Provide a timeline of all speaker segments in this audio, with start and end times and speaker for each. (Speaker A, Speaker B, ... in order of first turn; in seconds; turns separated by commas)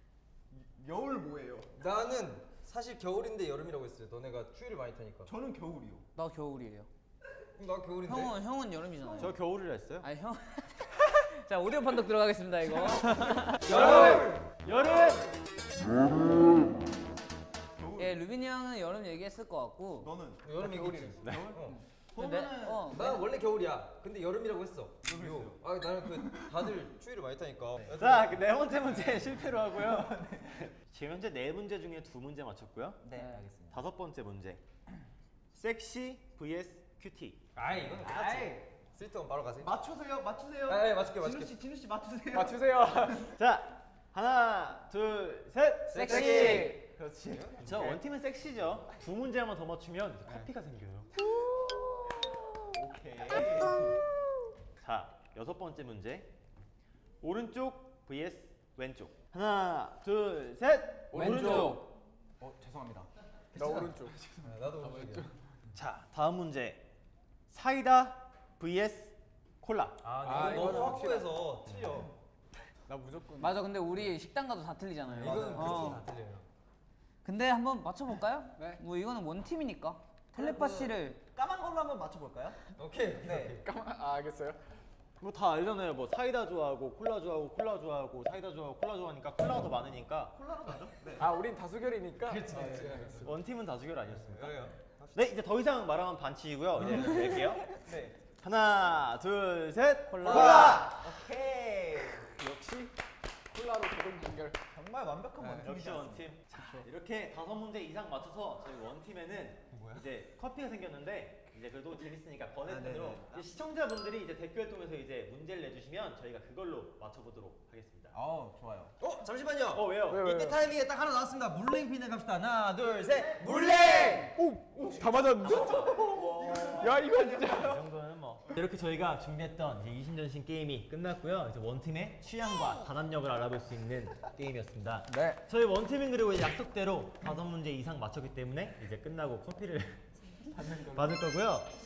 Speaker A: 0.5-1.8, Speaker B: 1.8-5.3, Speaker A: 5.2-6.0, Speaker C: 6.2-6.9, Speaker B: 7.6-8.4, Speaker C: 8.0-9.4, Speaker D: 9.2-10.1, Speaker C: 10.0-13.6, Speaker D: 13.0-15.3, Speaker B: 13.6-14.4, Speaker A: 17.8-18.2, Speaker C: 18.0-20.1, Speaker A: 20.0-20.6, Speaker B: 20.4-21.8, Speaker C: 20.6-21.1, Speaker D: 21.2-21.5, Speaker A: 21.3-22.9, Speaker C: 22.1-23.3, Speaker B: 22.9-28.3, Speaker A: 25.0-25.6, Speaker D: 27.9-33.0, Speaker A: 28.8-30.7, Speaker A: 33.0-33.8, Speaker D: 33.7-34.6, Speaker D: 35.5-37.4, Speaker B: 37.5-39.7, Speaker A: 37.9-38.6, Speaker A: 39.6-43.2, Speaker B: 40.7-41.5, Speaker E: 42.3-43.2, Speaker D: 43.3-46.8, Speaker B: 45.9-46.8, Speaker A: 46.0-48.0, Speaker E: 46.1-46.7, Speaker D: 47.6-51.1, Speaker A: 52.3-54.0, Speaker D: 54.8-56.3, Speaker D: 57.2-61.9, Speaker E: 61.1-61.9, Speaker C: 61.1-61.8, Speaker A: 62.4-63.1, Speaker E: 63.5-64.2, Speaker B: 63.5-63.9, Speaker A: 64.1-64.7, Speaker B: 64.4-65.3, Speaker D: 65.7-66.8, Speaker D: 67.5-70.9, Speaker B: 70.0-72.1, Speaker E: 70.2-71.3, Speaker E: 72.9-73.6, Speaker C: 73.4-76.0, Speaker B: 75.1-76.4, Speaker A: 75.2-75.9, Speaker C: 77.2-81.2, Speaker A: 80.3-82.6, Speaker B: 82.7-83.6, Speaker A: 83.2-83.6, Speaker E: 83.5-84.6, Speaker D: 85.2-90.8, Speaker A: 90.4-91.3, Speaker E: 91.2-93.2, Speaker B: 92.2-93.3, Speaker A: 92.5-93.0, Speaker D: 92.9-97.7, Speaker B: 94.1-95.2, Speaker B: 96.8-97.2, Speaker A: 97.7-98.2, Speaker D: 98.4-101.0, Speaker C: 100.1-100.8, Speaker B: 100.2-100.7, Speaker A: 100.2-102.3, Speaker E: 102.3-102.9, Speaker E: 103.5-104.6, Speaker A: 104.7-106.2, Speaker D: 105.6-118.1, Speaker C: 106.6-106.8, Speaker B: 109.7-110.0, Speaker A: 112.6-113.4, Speaker A: 118.1-119.0, Speaker B: 119.0-124.3, Speaker D: 119.7-120.5, Speaker E: 120.0-120.6, Speaker D: 123.1-123.6, Speaker A: 123.4-124.3, Speaker E: 124.3-125.8, Speaker A: 125.4-127.6, Speaker D: 125.5-140.1, Speaker E: 126.8-127.7, Speaker E: 135.1-135.4, Speaker A: 140.6-140.9, Speaker D: 140.8-141.7